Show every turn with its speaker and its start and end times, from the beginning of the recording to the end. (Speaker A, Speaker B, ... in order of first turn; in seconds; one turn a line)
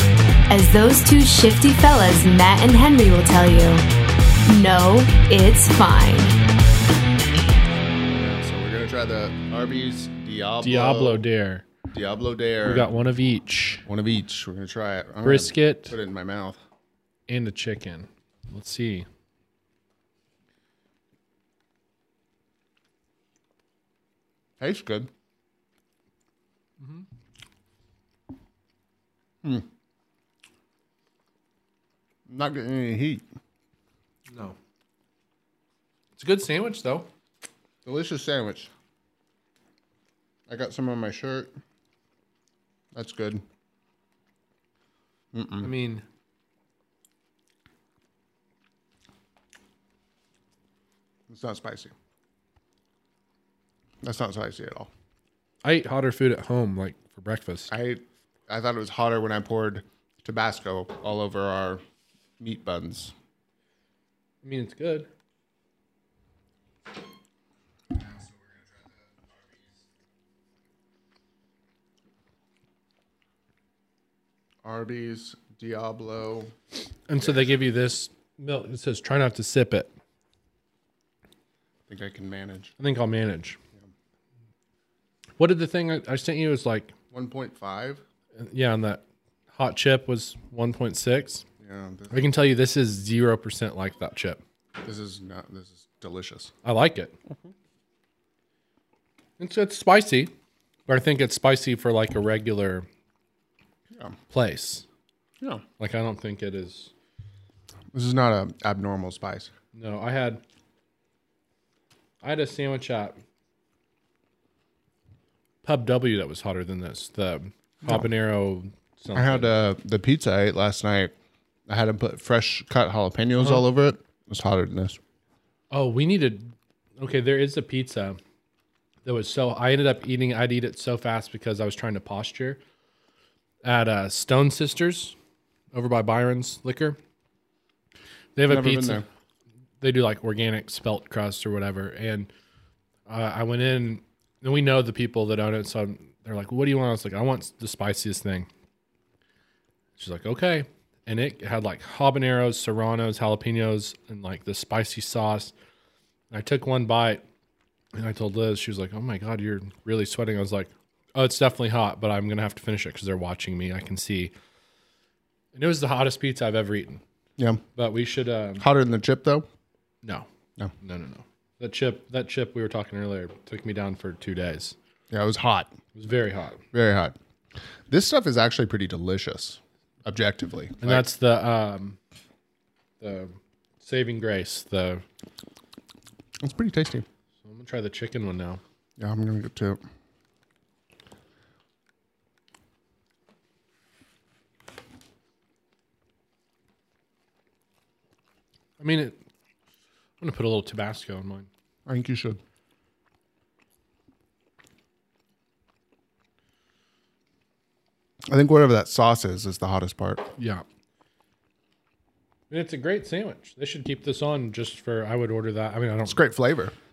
Speaker A: 0.5-3.9
Speaker A: 4.5-6.4
Speaker B: 8.0-11.2
Speaker C: 10.6-11.7
Speaker B: 11.9-12.9
Speaker C: 12.6-13.8
Speaker B: 13.9-16.6
Speaker C: 15.2-16.0
Speaker C: 17.3-19.1
Speaker B: 24.6-25.1
Speaker C: 26.8-27.1
Speaker B: 32.3-33.2
Speaker C: 34.3-34.6
Speaker C: 36.2-37.1
Speaker B: 37.9-38.7
Speaker B: 40.5-41.5
Speaker B: 42.9-43.4
Speaker B: 45.3-45.7
Speaker C: 45.6-46.0
Speaker B: 51.3-51.9
Speaker B: 54.0-54.9
Speaker C: 55.6-57.7
Speaker B: 57.7-61.8
Speaker B: 62.4-63.1
Speaker C: 64.4-65.1
Speaker B: 74.6-76.5
Speaker C: 77.1-79.9
Speaker B: 81.9-82.7
Speaker C: 82.8-83.6
Speaker C: 85.4-87.0
Speaker B: 87.1-88.0
Speaker C: 88.4-89.0
Speaker C: 89.5-91.5
Speaker B: 91.6-92.2
Speaker C: 92.1-94.4
Speaker B: 94.8-96.5
Speaker C: 96.6-97.2
Speaker B: 97.3-97.5
Speaker C: 99.4-100.3
Speaker C: 100.9-102.9
Speaker C: 104.3-104.8
Speaker C: 105.8-106.9
Speaker B: 107.9-109.5
Speaker C: 109.7-110.4
Speaker C: 112.2-113.2
Speaker C: 115.6-119.5
Speaker B: 119.2-121.1
Speaker B: 121.7-125.0
Speaker C: 123.4-123.7
Speaker C: 125.7-128.2
Speaker C: 129.1-132.6
Speaker C: 133.6-135.2
Speaker C: 135.7-137.0
Speaker C: 138.4-139.0
Speaker B: 138.5-139.1
Speaker C: 139.8-142.3
Speaker C: 143.1-148.5
Speaker C: 150.0-155.5
Speaker C: 156.3-157.2
Speaker C: 157.9-164.3
Speaker C: 165.5-167.0
Speaker C: 167.8-168.7
Speaker B: 168.6-169.5
Speaker C: 170.8-174.8
Speaker B: 175.1-175.8
Speaker C: 175.9-176.6
Speaker B: 176.7-177.2
Speaker B: 177.9-181.1
Speaker C: 180.8-182.0
Speaker C: 183.0-185.0
Speaker B: 186.4-187.1
Speaker C: 187.4-188.6
Speaker B: 189.0-189.8
Speaker C: 198.8-199.2
Speaker C: 200.2-201.5
Speaker B: 201.9-202.4
Speaker B: 208.3-210.3
Speaker C: 210.4-210.6
Speaker C: 212.5-216.2
Speaker B: 216.1-216.7